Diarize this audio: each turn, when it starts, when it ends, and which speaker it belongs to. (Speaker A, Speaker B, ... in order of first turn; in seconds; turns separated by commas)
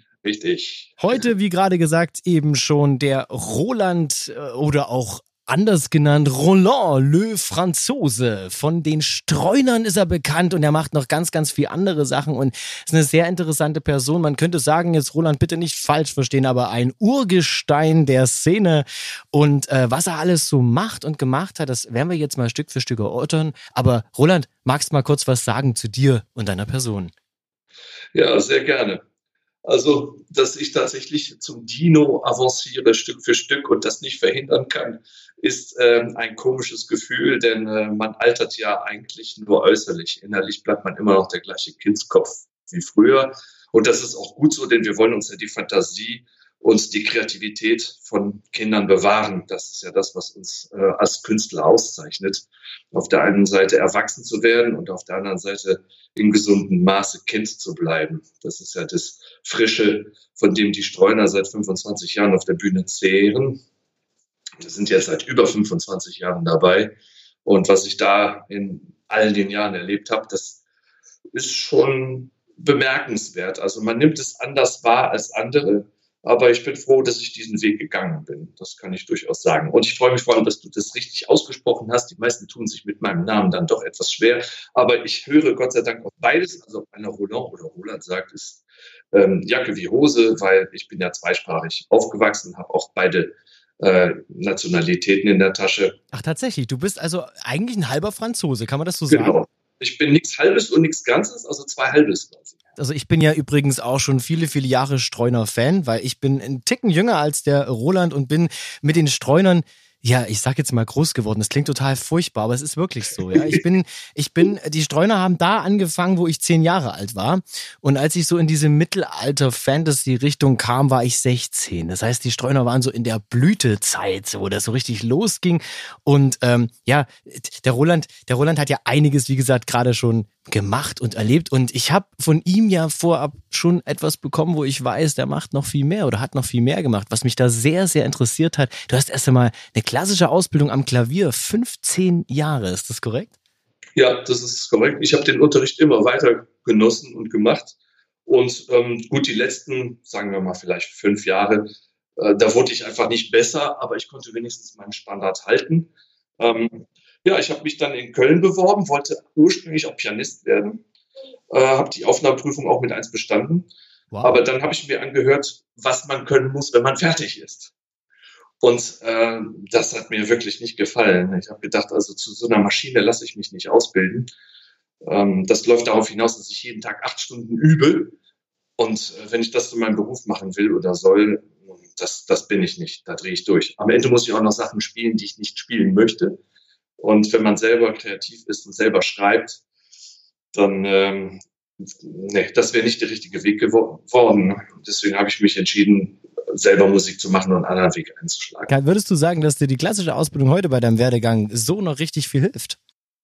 Speaker A: 0.2-1.3, Speaker B: 1.0-27.1, Speaker A: 28.1-29.0, Speaker A: 29.6-63.6, Speaker A: 64.6-66.9, Speaker A: 67.4-70.6, Speaker A: 71.3-96.0, Speaker B: 96.1-99.3, Speaker A: 99.1-102.6, Speaker B: 102.8-143.3, Speaker A: 113.3-113.6, Speaker A: 143.9-160.8, Speaker A: 161.5-163.7, Speaker B: 164.1-164.4, Speaker A: 164.2-167.7, Speaker A: 168.6-174.3, Speaker A: 175.0-178.2, Speaker A: 178.8-186.4, Speaker A: 187.0-189.6, Speaker A: 190.5-191.4, Speaker A: 191.9-198.7, Speaker B: 198.7-202.8